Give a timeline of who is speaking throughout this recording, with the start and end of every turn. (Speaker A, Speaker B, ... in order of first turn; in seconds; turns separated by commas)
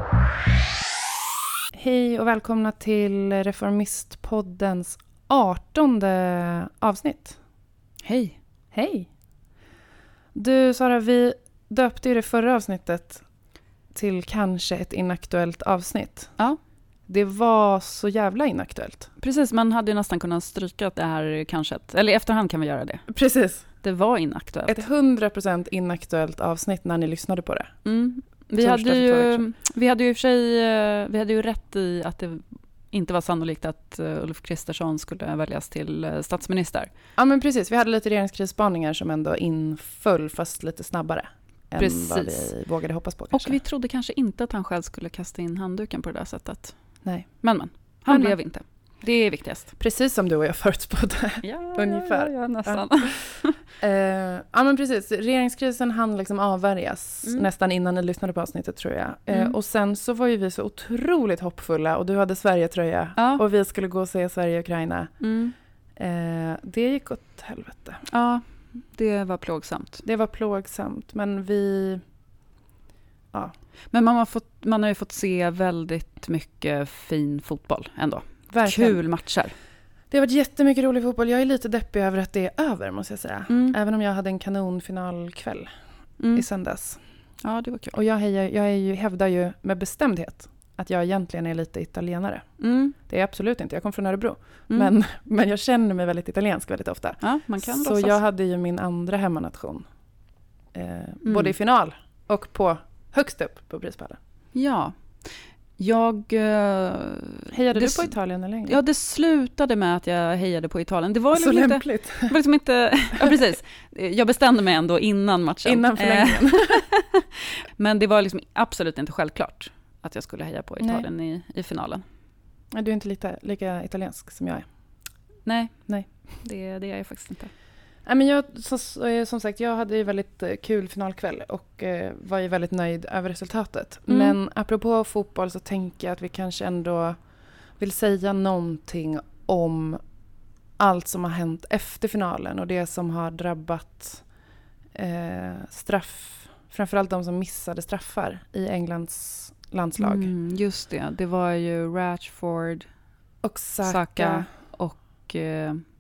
Speaker A: 1.7-7.4, Speaker B: 8.0-8.4, Speaker A: 8.7-9.1, Speaker A: 10.3-13.2, Speaker A: 13.9-16.4, Speaker A: 17.1-19.1, Speaker B: 19.2-23.1, Speaker A: 23.1-23.7, Speaker B: 23.8-24.8, Speaker A: 24.7-27.8, Speaker B: 27.9-36.9, Speaker A: 28.6-29.4, Speaker A: 37.2-43.6, Speaker B: 41.8-42.5, Speaker B: 43.3-46.8, Speaker A: 47.0-47.5, Speaker B: 47.4-49.7, Speaker A: 48.1-48.4, Speaker A: 49.8-65.3, Speaker B: 51.4-53.6, Speaker B: 59.3-59.6, Speaker B: 63.2-63.4, Speaker B: 65.2-65.5, Speaker A: 66.0-68.0, Speaker B: 68.1-70.0, Speaker A: 70.0-72.0, Speaker B: 73.9-79.6, Speaker A: 78.5-79.1, Speaker A: 80.1-85.7, Speaker B: 83.5-83.8, Speaker B: 86.2-86.5, Speaker A: 86.3-87.0, Speaker B: 87.4-88.0, Speaker A: 87.9-99.9, Speaker B: 92.6-93.0, Speaker B: 97.2-98.2, Speaker A: 100.7-104.2, Speaker B: 101.2-101.5, Speaker B: 104.5-105.2, Speaker B: 105.8-108.2, Speaker A: 107.5-108.8, Speaker B: 108.7-122.0, Speaker A: 111.3-112.3, Speaker A: 115.7-116.9, Speaker A: 120.8-121.0, Speaker A: 122.7-124.7, Speaker B: 125.5-127.5, Speaker A: 125.9-126.3, Speaker A: 128.1-140.0, Speaker B: 134.1-134.4, Speaker A: 140.8-144.3, Speaker A: 144.9-150.3, Speaker B: 150.0-152.9, Speaker A: 153.4-154.5, Speaker B: 153.8-155.8